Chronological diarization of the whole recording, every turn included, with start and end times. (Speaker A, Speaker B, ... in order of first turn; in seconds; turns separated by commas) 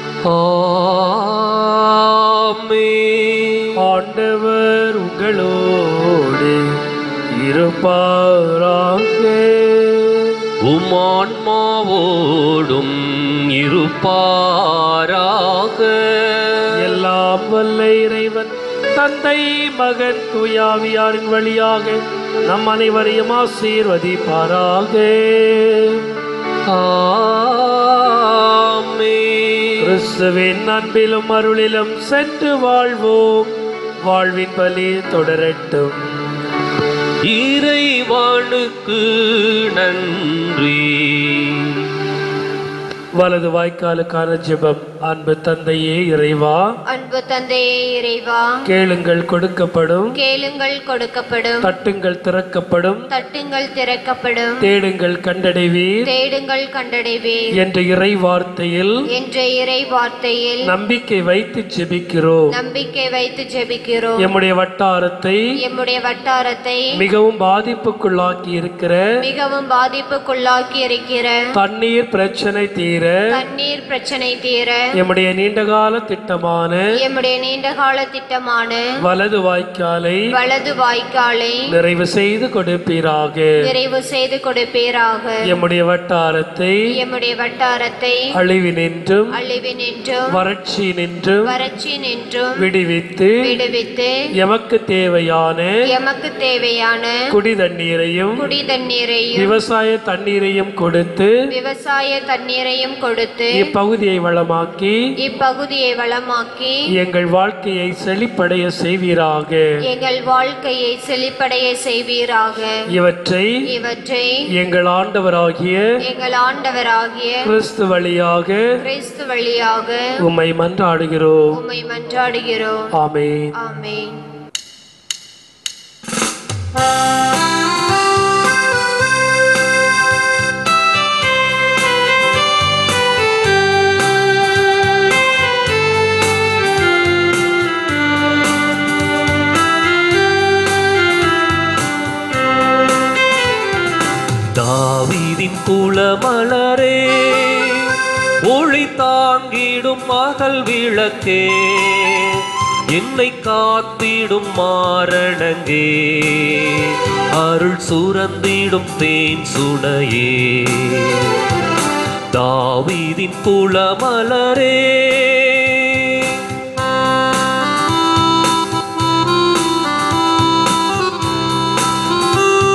Speaker A: 0.2-3.8, Speaker B: 3.8-6.8, Speaker B: 7.4-10.5, Speaker A: 10.6-16.8, Speaker B: 16.8-26.1, Speaker A: 26.7-29.9, Speaker B: 29.8-36.5, Speaker A: 37.2-41.9, Speaker B: 43.2-46.7, Speaker C: 46.9-48.6, Speaker B: 48.7-50.2, Speaker C: 50.1-51.7, Speaker B: 51.6-53.1, Speaker C: 53.1-54.7, Speaker B: 54.6-56.0, Speaker C: 56.0-57.5, Speaker B: 57.6-59.0, Speaker C: 59.1-60.7, Speaker B: 60.7-62.5, Speaker C: 62.5-64.2, Speaker B: 64.2-65.4, Speaker C: 65.6-66.9, Speaker B: 67.0-69.1, Speaker C: 69.2-71.4, Speaker B: 71.5-73.2, Speaker C: 73.3-74.9, Speaker B: 75.0-76.9, Speaker C: 77.0-78.8, Speaker B: 79.0-80.3, Speaker C: 80.3-81.6, Speaker B: 81.7-83.6, Speaker C: 83.6-85.5, Speaker B: 85.5-86.8, Speaker C: 87.0-88.3, Speaker B: 88.3-89.3, Speaker C: 89.3-90.3, Speaker B: 90.3-91.5, Speaker C: 91.5-92.6, Speaker B: 92.6-93.5, Speaker C: 93.4-94.1, Speaker B: 94.4-95.8, Speaker C: 95.9-97.2, Speaker B: 97.3-98.5, Speaker C: 98.4-99.5, Speaker B: 99.4-101.3, Speaker C: 101.5-103.7, Speaker B: 103.5-105.0, Speaker C: 105.2-106.8, Speaker B: 107.0-109.6, Speaker C: 109.9-112.7, Speaker B: 112.9-113.5, Speaker C: 113.7-114.5, Speaker B: 114.6-116.0, Speaker C: 116.0-117.5, Speaker B: 117.5-118.7, Speaker C: 118.8-120.1, Speaker B: 120.2-121.5, Speaker C: 121.5-122.9, Speaker B: 123.0-123.5, Speaker C: 123.5-124.2, Speaker A: 144.5-161.4, Speaker A: 162.3-166.4